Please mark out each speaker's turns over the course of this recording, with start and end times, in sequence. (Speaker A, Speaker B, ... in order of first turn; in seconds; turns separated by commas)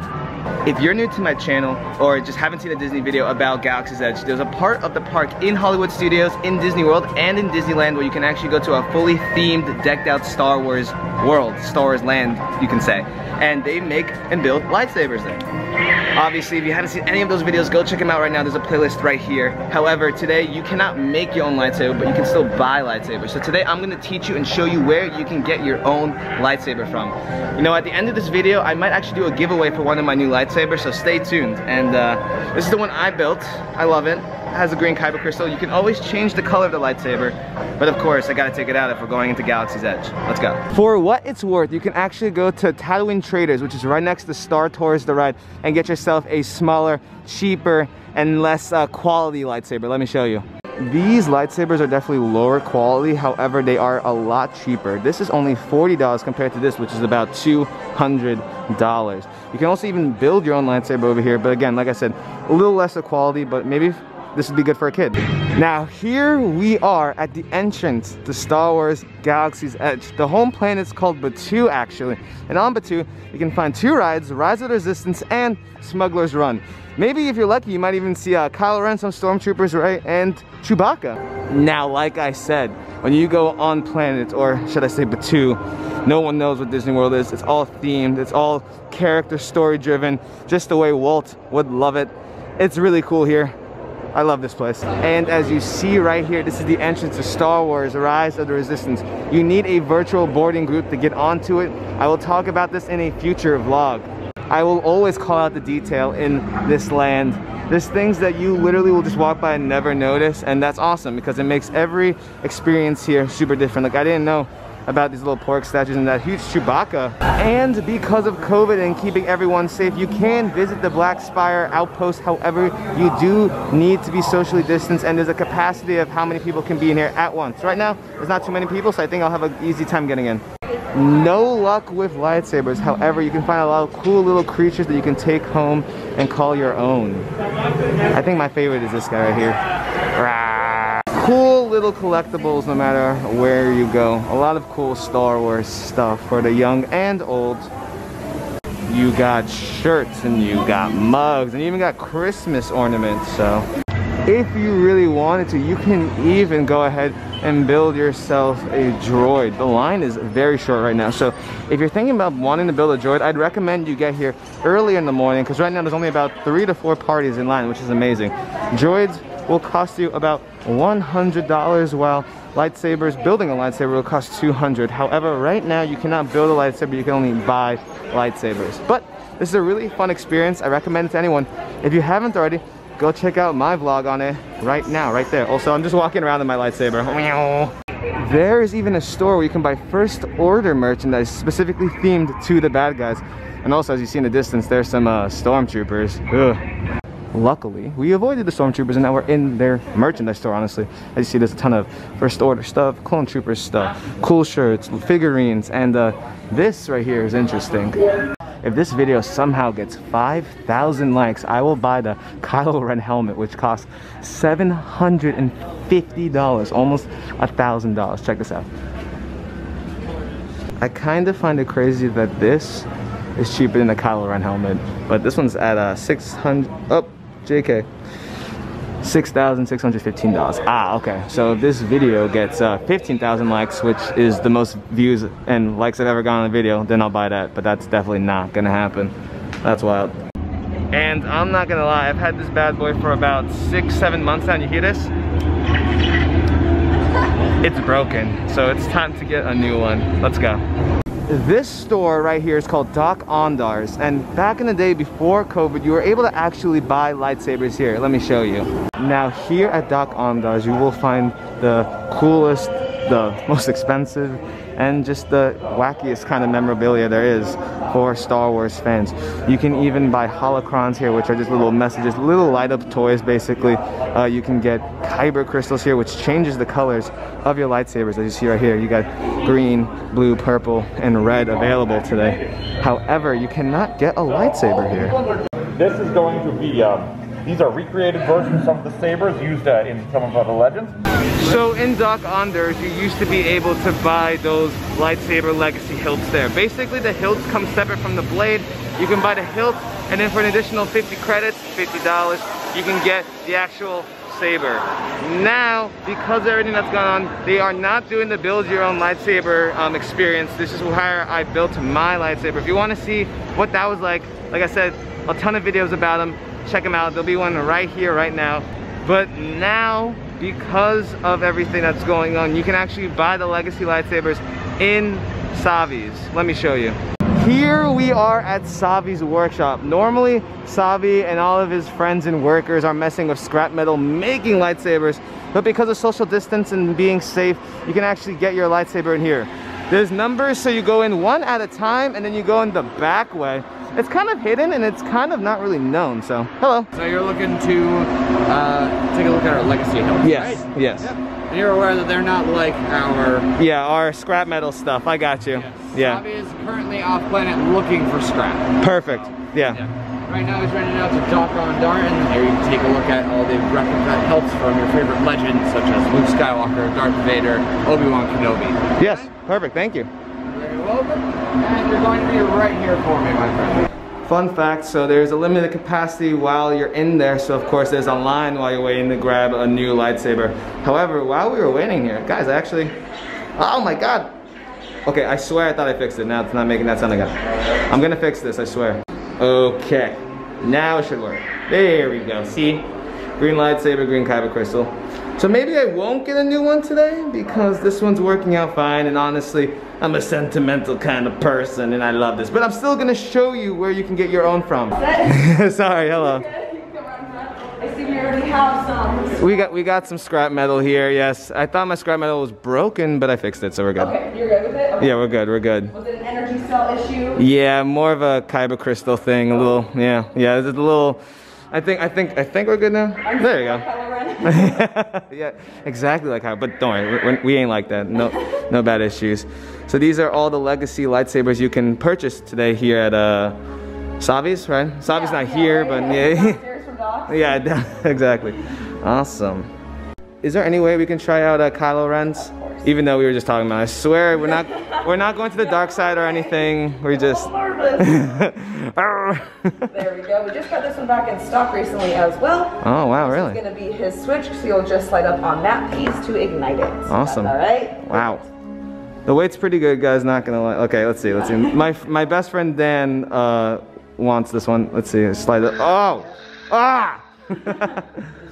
Speaker A: 0.6-15.4, Speaker A: 16.1-93.5, Speaker A: 94.1-130.4, Speaker A: 130.9-137.3, Speaker A: 138.1-139.6, Speaker A: 140.1-147.7, Speaker A: 148.9-153.7, Speaker A: 154.2-196.6, Speaker A: 197.3-208.1, Speaker A: 208.6-218.7, Speaker A: 220.8-227.9, Speaker A: 229.0-240.2, Speaker A: 240.9-245.1, Speaker A: 247.6-250.6, Speaker A: 251.3-285.2, Speaker B: 285.7-291.0, Speaker A: 291.4-346.9, Speaker C: 346.9-353.5, Speaker A: 350.2-351.1, Speaker A: 353.6-356.2, Speaker C: 355.7-358.7, Speaker A: 358.8-359.8, Speaker C: 359.7-369.2, Speaker A: 369.0-370.1, Speaker C: 370.4-373.9, Speaker A: 374.2-382.9, Speaker A: 383.6-384.3, Speaker A: 385.0-387.3, Speaker A: 387.9-406.5, Speaker D: 406.4-409.4, Speaker A: 409.3-414.2, Speaker D: 414.0-415.1, Speaker A: 415.0-415.9, Speaker D: 415.9-417.4, Speaker A: 417.3-423.9, Speaker D: 423.2-424.8, Speaker A: 424.4-433.6, Speaker A: 434.2-436.6, Speaker D: 435.1-437.5, Speaker A: 437.3-439.7, Speaker A: 440.4-449.9, Speaker D: 442.5-442.8, Speaker D: 445.8-446.2, Speaker D: 447.5-448.0, Speaker D: 449.9-458.4, Speaker A: 452.8-453.6, Speaker A: 457.1-458.4, Speaker A: 459.2-468.2